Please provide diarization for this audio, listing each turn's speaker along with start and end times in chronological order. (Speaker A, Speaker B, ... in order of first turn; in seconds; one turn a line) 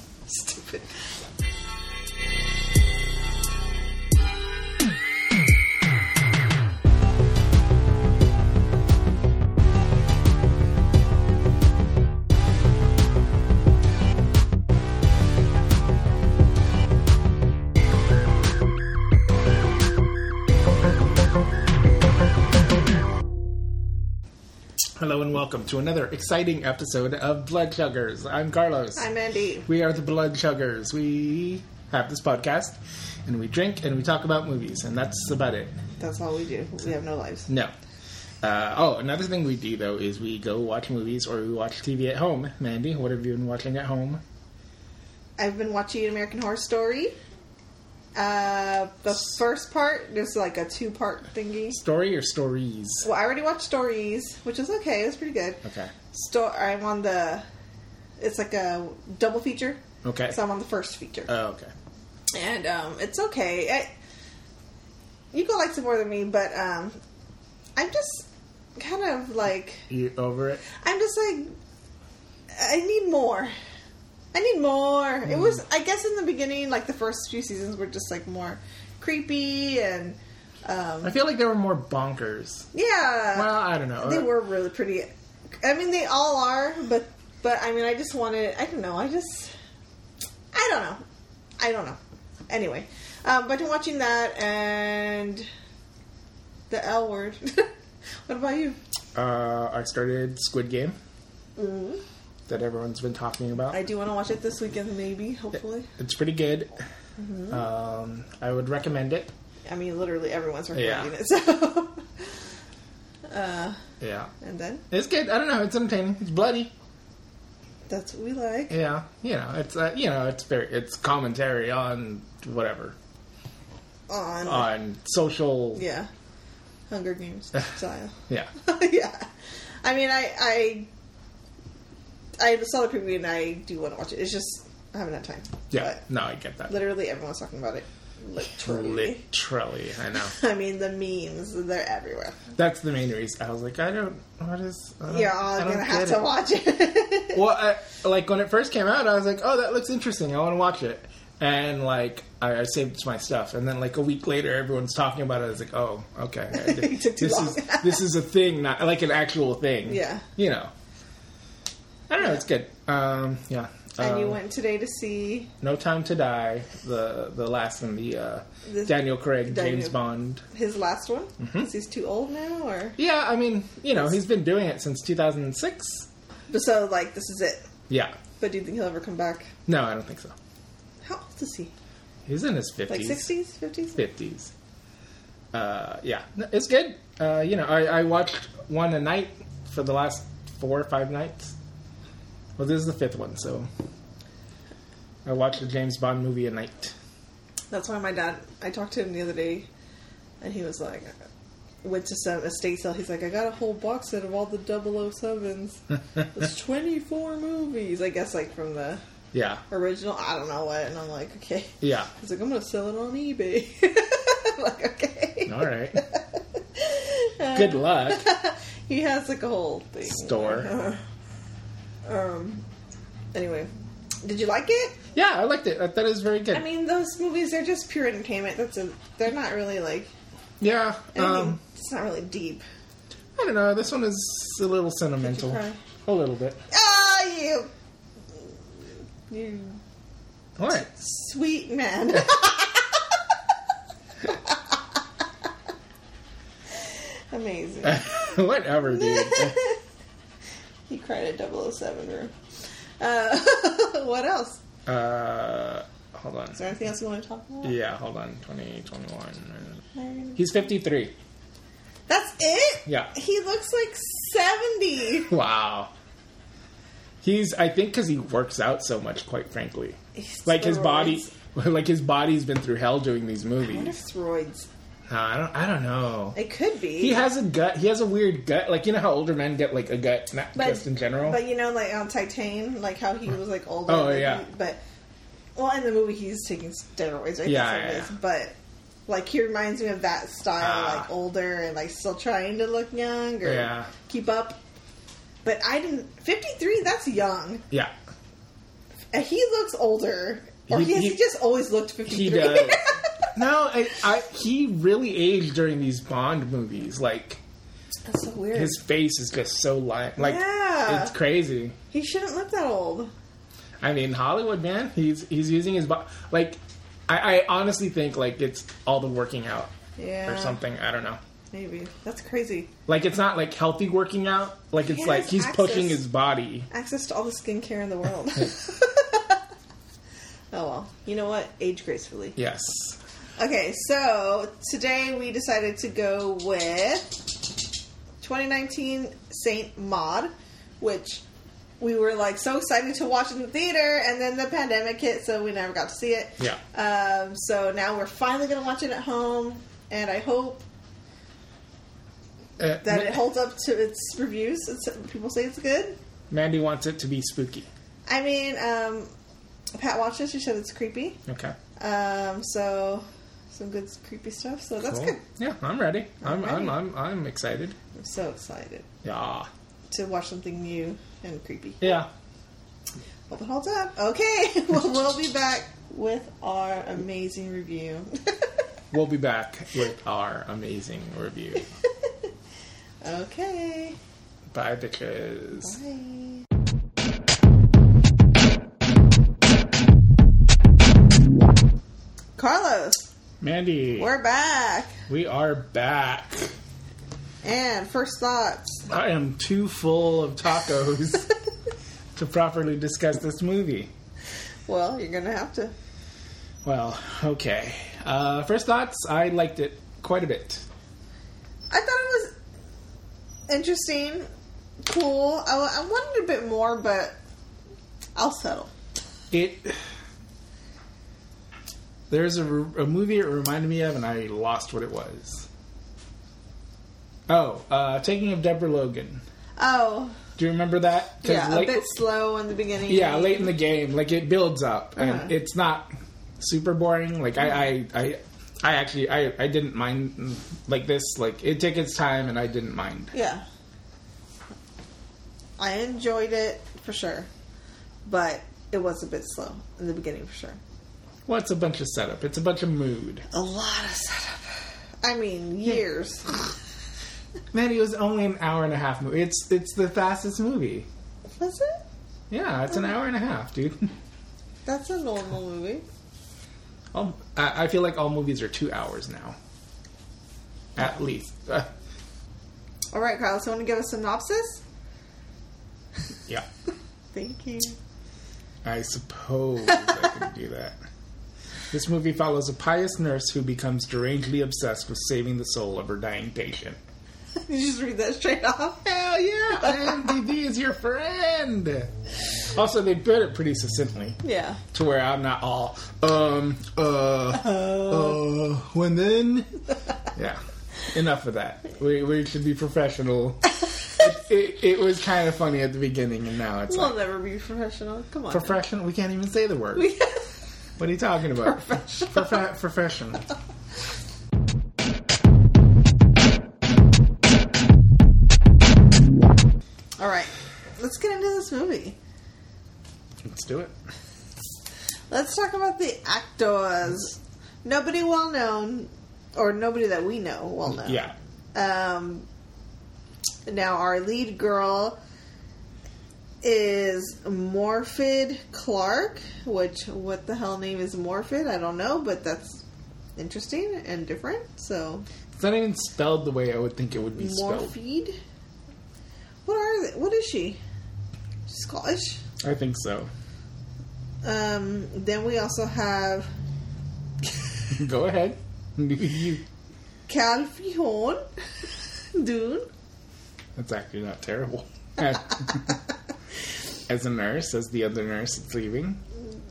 Speaker A: 0.3-0.9
Speaker B: 25.0-29.1
Speaker A: 29.0-29.7
Speaker B: 29.6-35.8
Speaker A: 36.0-37.5
Speaker B: 38.4-44.2
Speaker A: 45.4-47.2
Speaker A: 48.1-51.8
Speaker B: 51.7-53.1
Speaker A: 53.0-57.4
Speaker B: 55.6-55.9
Speaker A: 58.2-61.3
Speaker B: 60.0-60.4
Speaker B: 61.3-61.7
Speaker A: 62.3-63.9
Speaker A: 65.3-67.0
Speaker A: 67.8-69.9
Speaker B: 69.9-70.6
Speaker A: 70.7-71.5
Speaker A: 72.5-73.5
Speaker A: 74.3-81.2
Speaker B: 81.0-82.7
Speaker A: 82.7-85.1
Speaker B: 83.3-84.3
Speaker A: 85.6-89.5
Speaker A: 90.5-91.0
Speaker A: 91.6-95.5
Speaker A: 96.7-97.7
Speaker A: 98.3-98.8
Speaker B: 99.2-101.0
Speaker A: 101.6-102.0
Speaker B: 102.5-103.8
Speaker A: 103.7-105.9
Speaker B: 106.0-106.8
Speaker A: 107.2-107.6
Speaker B: 107.5-109.3
Speaker A: 109.7-112.5
Speaker B: 110.7-111.1
Speaker A: 113.3-113.8
Speaker B: 114.0-114.3
Speaker A: 114.4-114.8
Speaker B: 114.9-116.7
Speaker A: 117.9-118.7
Speaker B: 118.7-123.0
Speaker A: 124.1-124.7
Speaker B: 124.4-125.8
Speaker A: 125.8-126.1
Speaker A: 126.9-129.3
Speaker A: 129.8-130.9
Speaker A: 132.4-136.0
Speaker B: 135.7-136.8
Speaker A: 136.7-139.2
Speaker B: 138.4-140.3
Speaker A: 140.2-142.5
Speaker B: 142.6-146.2
Speaker A: 145.1-147.4
Speaker B: 147.3-160.7
Speaker A: 156.5-158.1
Speaker A: 159.8-160.2
Speaker B: 162.1-164.4
Speaker A: 164.0-165.5
Speaker B: 165.6-170.4
Speaker A: 168.7-170.0
Speaker A: 170.5-173.0
Speaker B: 171.4-171.7
Speaker B: 173.0-176.1
Speaker A: 176.5-177.7
Speaker B: 177.9-178.2
Speaker A: 178.4-179.5
Speaker B: 179.7-180.3
Speaker A: 181.0-181.7
Speaker B: 182.2-183.3
Speaker A: 182.9-184.0
Speaker B: 184.0-184.5
Speaker B: 185.5-191.5
Speaker B: 192.6-193.7
Speaker B: 195.2-196.9
Speaker A: 197.7-199.7
Speaker A: 200.4-201.2
Speaker A: 201.8-209.0
Speaker B: 209.3-209.6
Speaker A: 209.7-221.0
Speaker B: 211.8-212.1
Speaker B: 215.5-216.0
Speaker B: 217.5-218.2
Speaker B: 220.1-220.8
Speaker A: 222.1-222.7
Speaker A: 223.3-223.7
Speaker A: 224.2-225.0
Speaker B: 225.1-226.7
Speaker A: 226.5-230.1
Speaker B: 230.6-231.6
Speaker A: 231.1-232.6
Speaker B: 233.3-236.6
Speaker A: 235.2-235.8
Speaker A: 236.7-237.7
Speaker A: 239.3-239.8
Speaker B: 240.6-240.9
Speaker A: 240.7-243.2
Speaker A: 244.3-244.7
Speaker A: 246.7-249.8
Speaker B: 247.8-249.6
Speaker A: 250.9-252.3
Speaker A: 253.0-254.6
Speaker B: 254.8-256.7
Speaker A: 256.5-257.8
Speaker B: 257.6-259.8
Speaker A: 259.9-260.4
Speaker B: 260.4-261.1
Speaker A: 262.1-265.3
Speaker B: 262.9-263.1
Speaker B: 265.3-265.9
Speaker B: 267.2-273.9
Speaker A: 270.1-271.3
Speaker A: 273.6-274.7
Speaker B: 275.1-276.4
Speaker A: 276.3-277.2
Speaker B: 277.0-281.4
Speaker A: 280.5-284.8
Speaker B: 283.9-284.4
Speaker A: 285.6-288.5
Speaker B: 287.4-288.1
Speaker A: 289.1-294.6
Speaker B: 290.6-291.1
Speaker B: 293.4-293.9
Speaker A: 295.4-297.6
Speaker A: 299.1-303.3
Speaker B: 300.7-301.2
Speaker B: 302.1-307.4
Speaker A: 308.0-308.8
Speaker B: 308.5-311.8
Speaker A: 310.2-311.1
Speaker A: 311.9-313.1
Speaker B: 313.8-319.7
Speaker A: 320.0-320.6
Speaker B: 320.3-321.2
Speaker A: 321.5-322.7
Speaker B: 322.9-326.7
Speaker A: 324.8-326.0
Speaker A: 326.7-329.4
Speaker A: 330.5-332.4
Speaker B: 332.4-333.0
Speaker A: 333.4-337.2
Speaker A: 338.2-341.2
Speaker A: 341.8-350.6
Speaker B: 352.6-353.2
Speaker A: 352.8-356.0
Speaker B: 356.3-357.7
Speaker A: 358.1-359.1
Speaker A: 359.8-361.2
Speaker B: 361.3-361.6
Speaker A: 361.8-365.2
Speaker B: 364.8-367.8
Speaker A: 366.2-366.8
Speaker A: 367.9-368.9
Speaker B: 369.0-369.5
Speaker A: 369.9-372.0
Speaker B: 371.8-372.1
Speaker A: 373.3-378.5
Speaker B: 378.9-381.7
Speaker A: 381.8-382.3
Speaker A: 383.0-384.0
Speaker B: 384.5-385.7
Speaker A: 385.6-386.4
Speaker A: 392.4-393.0
Speaker B: 393.4-394.1
Speaker A: 394.0-395.0
Speaker B: 395.1-396.5
Speaker A: 397.4-398.9
Speaker B: 398.9-401.3
Speaker B: 402.1-403.9
Speaker A: 404.7-405.7
Speaker B: 406.6-410.6
Speaker A: 411.7-412.4
Speaker A: 413.5-414.3
Speaker A: 414.8-417.1
Speaker A: 418.1-418.7
Speaker B: 419.3-419.8
Speaker B: 422.1-425.5
Speaker B: 427.3-429.2
Speaker A: 429.6-430.2
Speaker B: 430.4-431.9
Speaker A: 431.2-433.5
Speaker B: 432.9-443.1
Speaker A: 434.9-435.3
Speaker A: 443.1-443.4
Speaker A: 445.6-447.3
Speaker A: 448.1-450.6
Speaker B: 451.2-453.2
Speaker A: 453.3-456.5
Speaker B: 457.5-460.9
Speaker A: 461.4-461.8
Speaker B: 462.3-463.9
Speaker A: 464.6-465.8
Speaker B: 466.9-469.4
Speaker B: 470.7-471.7
Speaker A: 472.9-474.6
Speaker A: 477.1-477.8
Speaker B: 478.6-480.8
Speaker A: 479.9-480.2
Speaker B: 481.7-486.8
Speaker A: 487.5-490.2
Speaker B: 489.5-491.9
Speaker B: 492.4-494.2
Speaker A: 494.2-494.6
Speaker B: 494.7-499.6
Speaker B: 500.1-506.9
Speaker A: 506.7-508.6
Speaker B: 508.3-509.9
Speaker A: 509.7-510.3
Speaker B: 510.8-513.3
Speaker A: 511.4-512.4
Speaker A: 520.0-522.0
Speaker B: 523.2-523.7
Speaker A: 525.1-532.3
Speaker B: 530.7-531.1
Speaker A: 533.5-535.0
Speaker A: 536.4-542.6
Speaker A: 543.2-545.1
Speaker B: 545.4-547.7
Speaker A: 547.1-548.2
Speaker A: 549.5-550.6
Speaker A: 551.5-552.2
Speaker B: 552.4-553.1
Speaker A: 554.2-556.3
Speaker B: 557.7-559.4
Speaker A: 560.1-561.2
Speaker A: 562.2-562.7
Speaker B: 563.6-565.8
Speaker B: 566.9-569.0